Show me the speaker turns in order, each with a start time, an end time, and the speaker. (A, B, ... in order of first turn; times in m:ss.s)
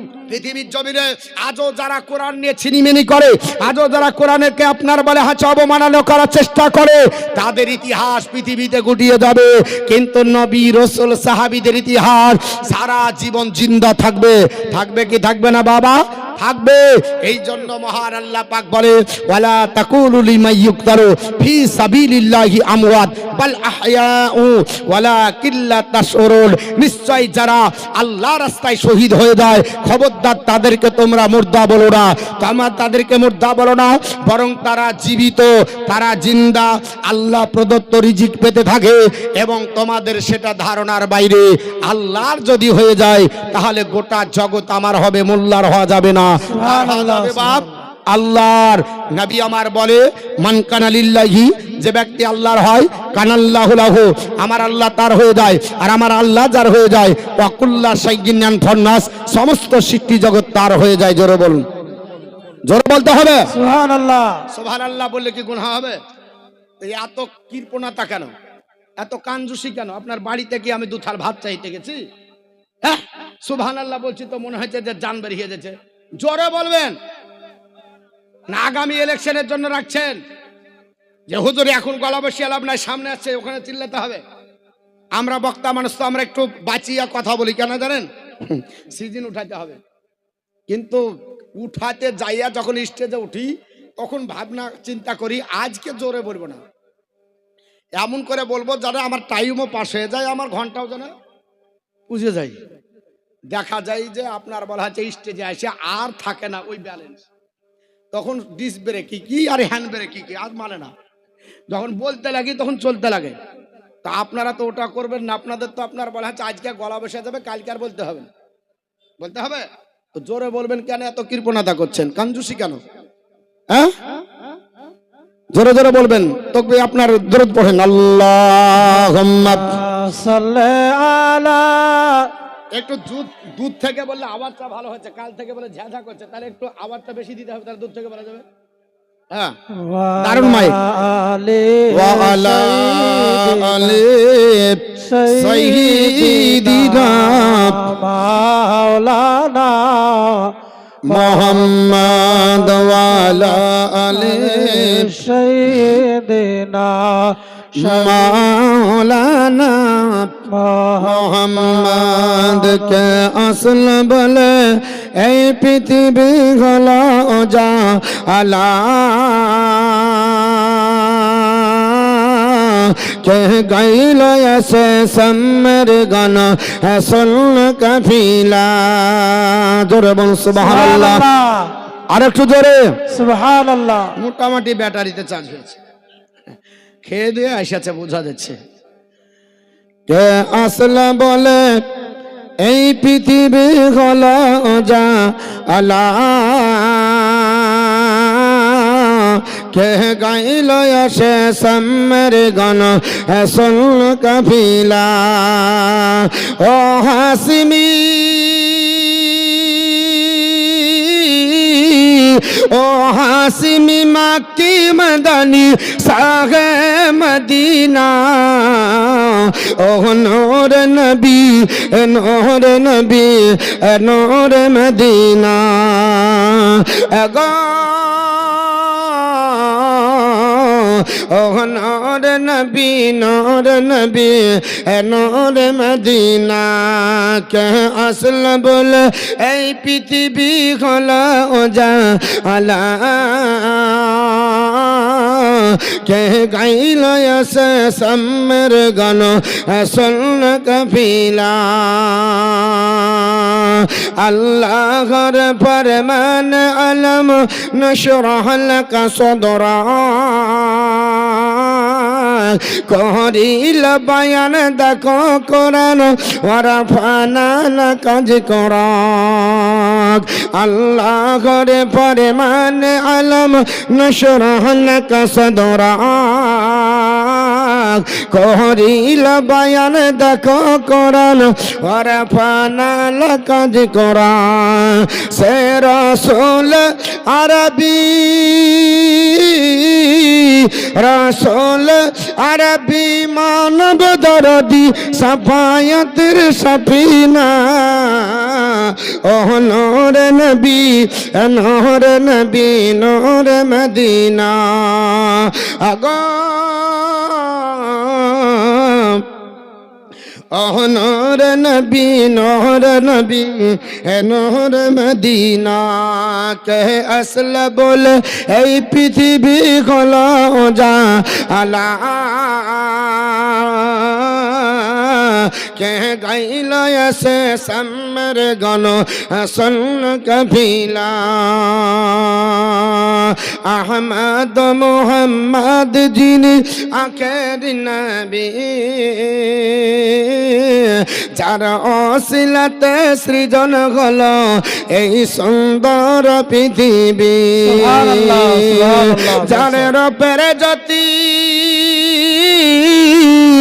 0:00.3-1:01.6 A
0:46.5-0:47.8 B
1:02.7-1:03.5 A
1:03.5-1:04.4 B
1:04.5-1:06.0 A
1:06.8-1:08.3 A
1:09.0-1:12.0 A
1:12.8-1:16.9 A
1:18.5-1:20.2 A
1:21.3-1:24.2 A
1:25.2-1:29.8 A
1:30.7-1:31.0 A
1:31.6-1:36.6 A
1:38.0-1:41.1 A
1:42.1-1:42.6 A
1:43.5-1:47.2 A
1:48.1-1:50.9 A
1:51.7-1:53.3 A
1:54.0-1:58.3 A
1:59.2-2:02.8 A
2:05.5-2:09.8 A
2:08.8-2:12.3 B
2:12.7-2:18.4 A
2:19.7-2:24.0 B
2:20.2-2:20.8 A
2:21.9-2:24.8 A
2:25.0-2:30.5 B
2:25.3-2:27.8 A
2:31.0-2:35.0 A
2:31.1-2:38.5 B
2:37.8-2:40.3 A
2:40.5-2:43.2 B
2:41.0-3:01.2 A
3:00.5-3:01.8 B
3:02.1-3:02.9 A
3:03.1-3:04.1 B
3:04.2-3:05.8 A
3:07.0-3:08.6 A
3:10.1-3:11.7 A
3:12.6-3:18.3 A
3:19.7-3:32.2 A
3:32.7-3:48.8 A
3:49.6-3:49.9 A
3:51.3-4:05.1 A
4:06.0-4:12.7 A
4:14.2-4:21.6 A
4:22.9-4:37.4 A
4:38.3-4:50.1 A
4:51.0-4:58.5 A
4:59.3-5:08.8 A
5:10.5-5:24.2 A
5:25.8-5:32.9 A
5:33.7-5:39.8 A
5:41.4-5:44.4 A
5:45.0-5:48.8 A
5:47.6-5:49.9 B
5:49.4-5:52.3 A